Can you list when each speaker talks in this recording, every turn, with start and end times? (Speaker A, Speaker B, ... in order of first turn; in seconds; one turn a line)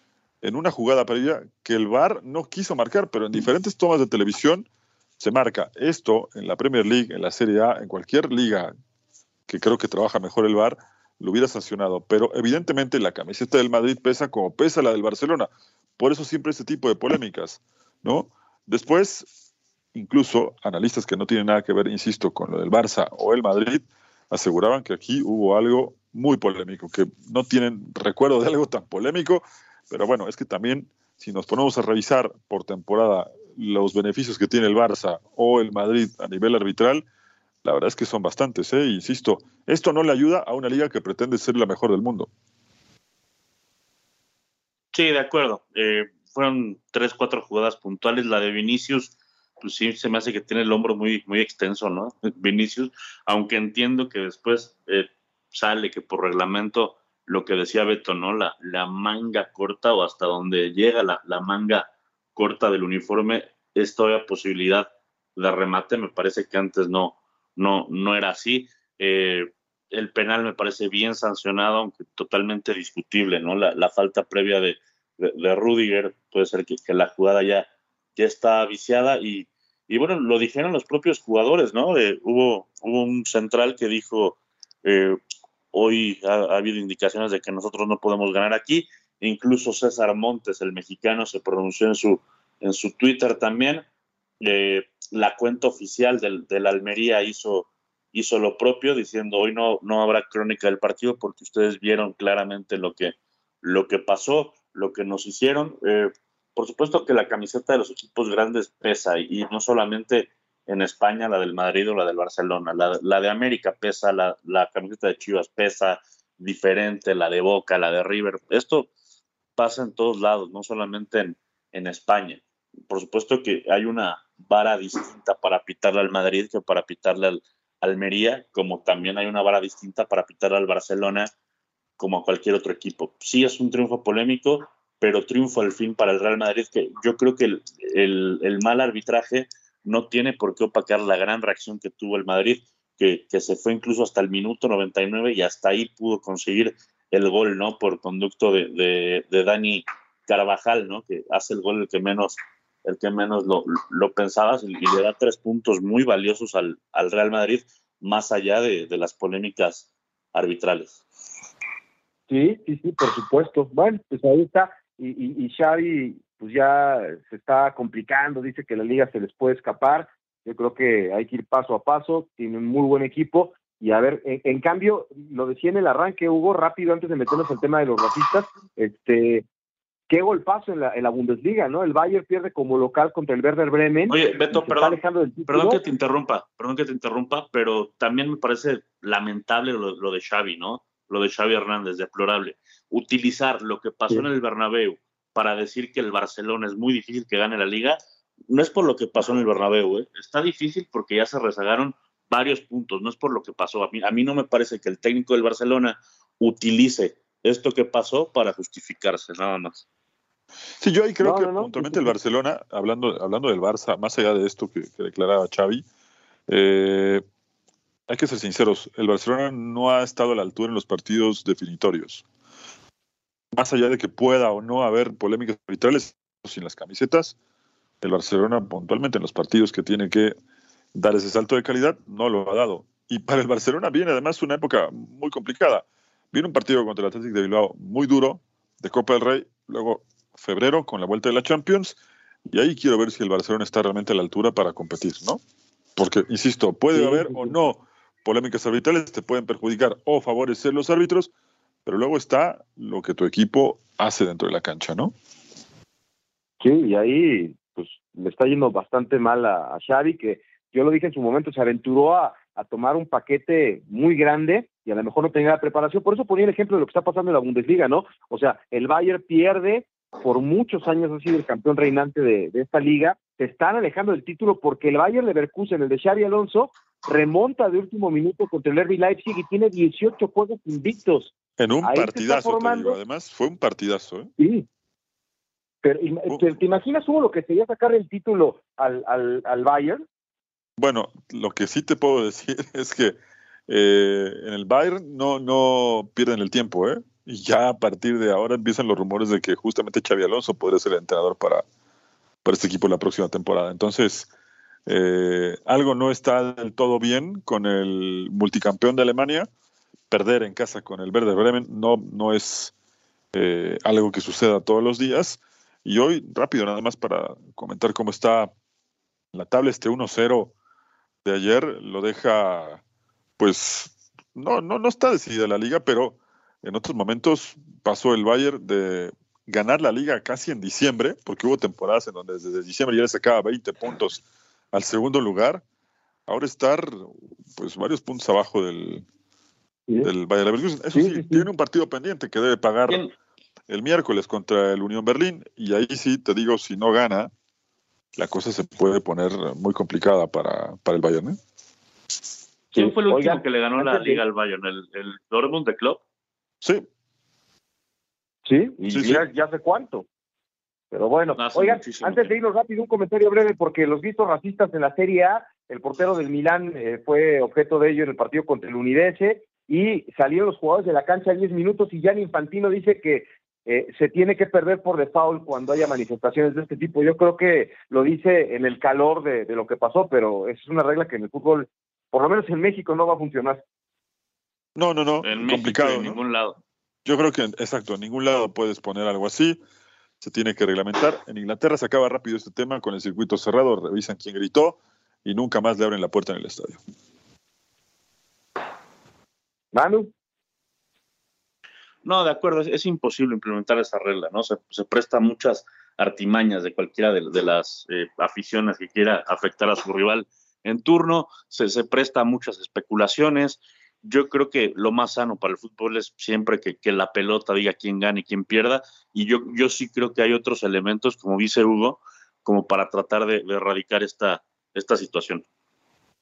Speaker A: 0.4-4.7
Speaker A: 5.2-8.7
Speaker A: 9.5-19.3
Speaker A: 19.9-37.0
Speaker A: 37.6-42.3
Speaker B: 44.9-85.2
Speaker B: 85.7-93.8
Speaker B: 94.4-118.9
Speaker B: 119.5-131.3
Speaker B: 132.0-161.0
Speaker C: 162.3-179.4
Speaker C: 180.1-185.8
Speaker B: 184.1-209.8
Speaker A: 210.8-215.8
Speaker C: 211.2-212.1
Speaker A: 216.5-217.2
Speaker A: 218.1-222.2
Speaker A: 223.5-227.3
Speaker A: 228.0-230.3
Speaker A: 230.9-242.0
Speaker A: 242.5-245.4
Speaker A: 245.9-251.3
Speaker C: 246.9-247.5
Speaker A: 251.8-255.1
Speaker C: 256.6-282.9
Speaker A: 281.6-284.3
Speaker C: 284.4-284.6
Speaker C: 285.8-290.0
Speaker A: 286.3-286.6
Speaker A: 290.8-293.2
Speaker A: 293.7-301.6
Speaker A: 302.4-304.3
Speaker A: 304.9-309.5
Speaker A: 310.1-312.7
Speaker A: 313.3-318.5
Speaker A: 319.3-320.5
Speaker A: 321.2-322.8
Speaker A: 323.4-335.6
Speaker A: 336.3-339.0
Speaker A: 340.0-343.0
Speaker C: 340.9-341.5
Speaker A: 343.7-347.3
Speaker A: 348.1-351.4
Speaker C: 352.7-354.2
Speaker B: 352.8-356.0
Speaker C: 358.4-360.1
Speaker A: 358.9-359.2
Speaker C: 360.9-383.6
Speaker B: 361.4-362.3
Speaker A: 384.8-386.2
Speaker B: 385.2-386.6
Speaker A: 387.0-389.6
Speaker A: 390.2-396.8
Speaker C: 399.7-400.1
Speaker B: 402.0-425.4